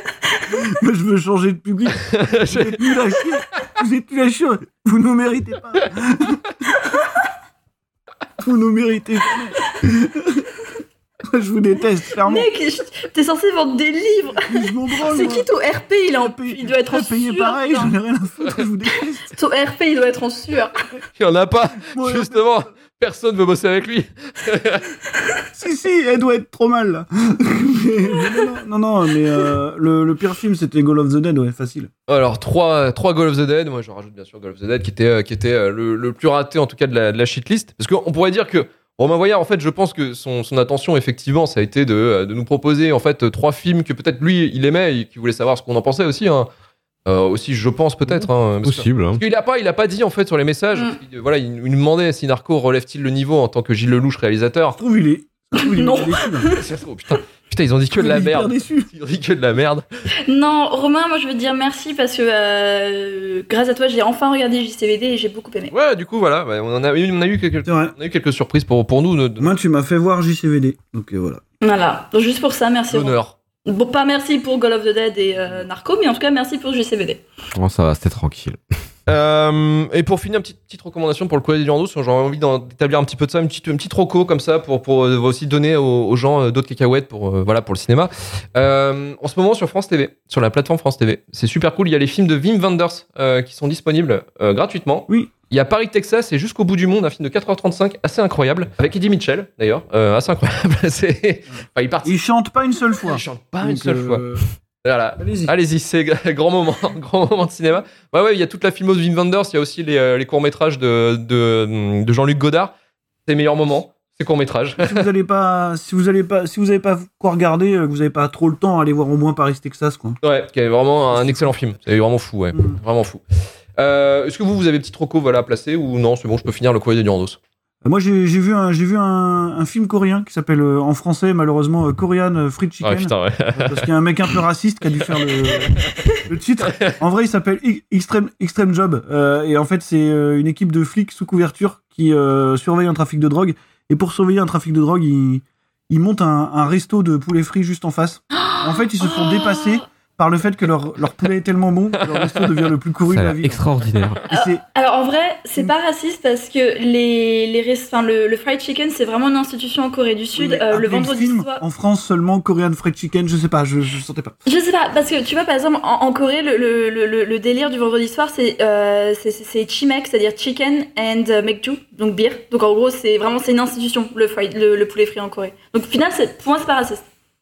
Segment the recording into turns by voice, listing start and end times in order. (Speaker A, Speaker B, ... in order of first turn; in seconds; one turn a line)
Speaker A: 0.5-6.5
Speaker B: 2.0-2.8
Speaker A: 8.4-10.5
Speaker A: 11.3-12.5
Speaker C: 12.2-17.9
Speaker A: 14.3-15.5
Speaker A: 16.1-19.3
Speaker C: 19.3-20.7
Speaker B: 21.2-24.9
Speaker A: 21.9-22.6
Speaker A: 25.6-31.9
Speaker B: 32.1-46.5
Speaker B: 47.1-54.8
Speaker D: 48.0-49.2
Speaker A: 54.8-56.5
Speaker C: 55.6-56.6
Speaker B: 56.5-59.8
Speaker A: 57.9-58.9
Speaker C: 60.3-65.7
Speaker B: 65.7-69.5
Speaker A: 67.7-67.9
Speaker A: 69.4-71.4
Speaker C: 71.6-77.2
Speaker B: 72.9-73.3
Speaker D: 77.5-78.6
Speaker B: 79.1-102.2
Speaker A: 102.0-104.4
Speaker B: 103.0-104.3
Speaker B: 104.8-112.7
Speaker A: 105.2-105.5
Speaker B: 113.3-115.1
Speaker A: 114.8-120.2
Speaker B: 120.2-123.2
Speaker A: 121.1-121.6
Speaker B: 123.8-127.4
Speaker A: 127.8-153.7
Speaker B: 132.8-133.9
Speaker B: 135.3-135.8
Speaker B: 136.7-137.0
Speaker C: 148.3-149.8
Speaker D: 153.1-154.2
Speaker A: 154.3-154.6
Speaker C: 154.3-161.6
Speaker A: 160.3-164.3
Speaker C: 164.5-177.0